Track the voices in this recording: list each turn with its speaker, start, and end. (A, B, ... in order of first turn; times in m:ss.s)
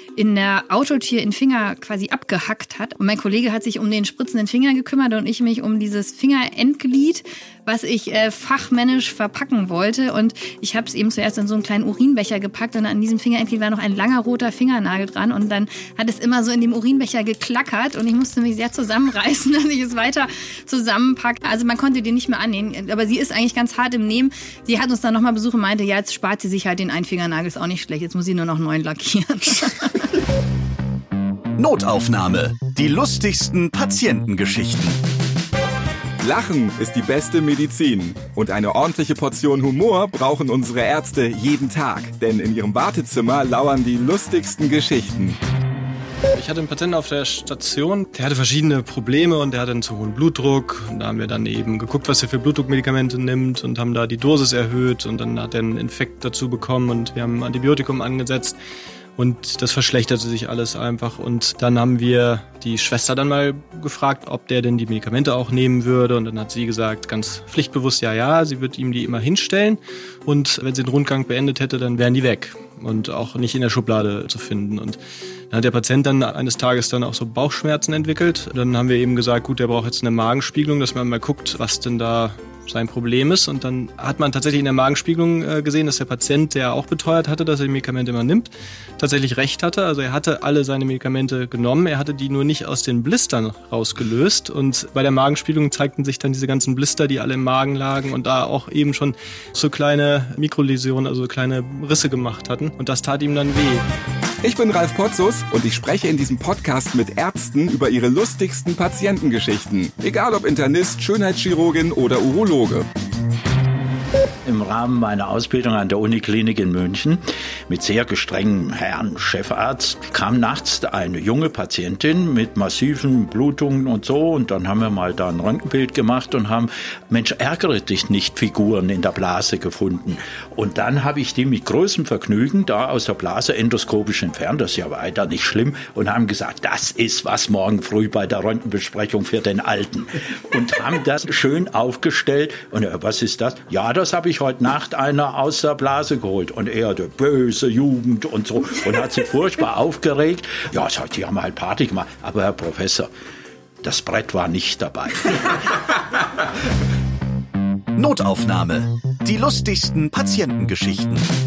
0:00.2-0:30.0 A
0:31.6-0:35.0 B
0:36.2-0:45.4 C
0:46.3-0:58.6 D
0:59.2-1:15.0 D
1:15.5-1:43.8 D
1:44.4-1:52.8 C
1:54.4-2:33.1 E
2:33.8-2:35.6 E
2:38.0-2:41.3 B